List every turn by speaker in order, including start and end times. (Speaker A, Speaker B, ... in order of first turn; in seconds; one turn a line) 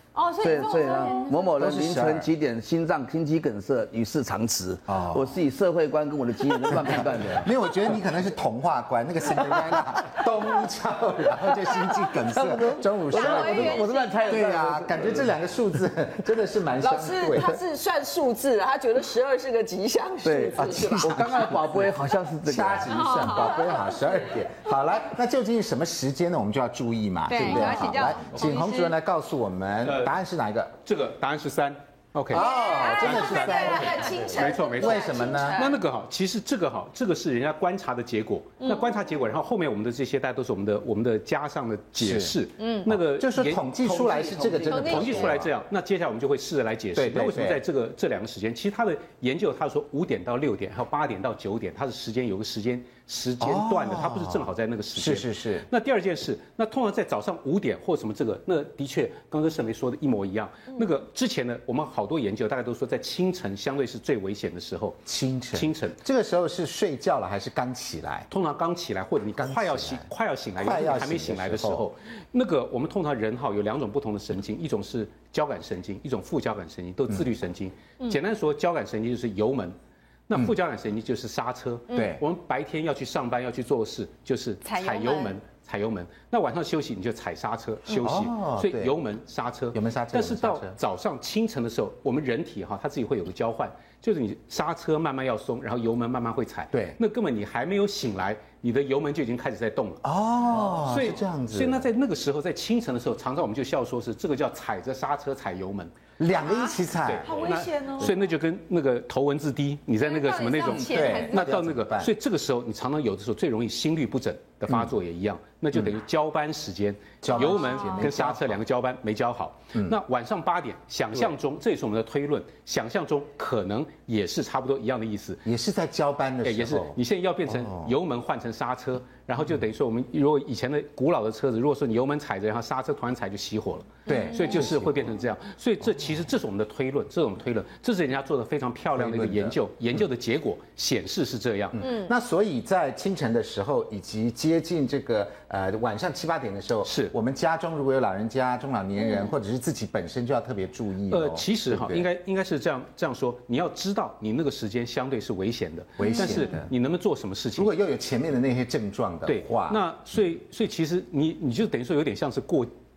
Speaker A: 0.1-1.5
Speaker B: 0.4-7.5
Speaker C: 1.5-2.3
Speaker C: 4.9-5.3
Speaker C: 6.7-17.6
Speaker B: 12.2-15.3
Speaker A: 13.1-14.5
Speaker D: 16.8-21.1
Speaker B: 20.2-23.1
Speaker C: 20.6-21.9
Speaker C: 22.4-30.8
Speaker A: 23.0-23.5
Speaker A: 27.3-28.9
Speaker E: 29.8-30.1
Speaker E: 30.9-65.0
Speaker C: 32.3-34.1
Speaker D: 32.4-35.8
Speaker A: 32.5-34.2
Speaker C: 34.7-35.7
Speaker A: 38.6-38.9
Speaker C: 42.0-42.4
Speaker A: 42.6-42.9
Speaker C: 42.9-45.5
Speaker B: 44.0-44.7
Speaker A: 44.7-45.3
Speaker C: 47.0-47.6
Speaker C: 53.4-55.7
Speaker C: 65.1-68.3
Speaker E: 65.5-66.0
Speaker E: 68.3-79.8
Speaker C: 69.4-71.8
Speaker E: 80.3-100.0
Speaker C: 81.9-82.2
Speaker A: 84.6-85.4
Speaker C: 87.9-89.0
Speaker C: 89.7-90.8
Speaker C: 96.7-97.0
Speaker C: 100.0-101.9
Speaker E: 100.8-105.9
Speaker C: 106.2-107.2
Speaker E: 107.0-125.5
Speaker D: 107.2-108.1
Speaker A: 110.0-111.5
Speaker C: 110.7-112.1
Speaker C: 117.2-118.6
Speaker C: 125.5-127.0
Speaker E: 126.4-141.8
Speaker C: 127.5-127.9
Speaker C: 134.1-135.1
Speaker C: 138.9-139.6
Speaker C: 141.7-152.1
Speaker E: 146.8-147.1
Speaker E: 151.1-157.7
Speaker C: 156.0-156.7
Speaker A: 156.1-156.4
Speaker C: 157.6-159.8
Speaker E: 159.3-162.7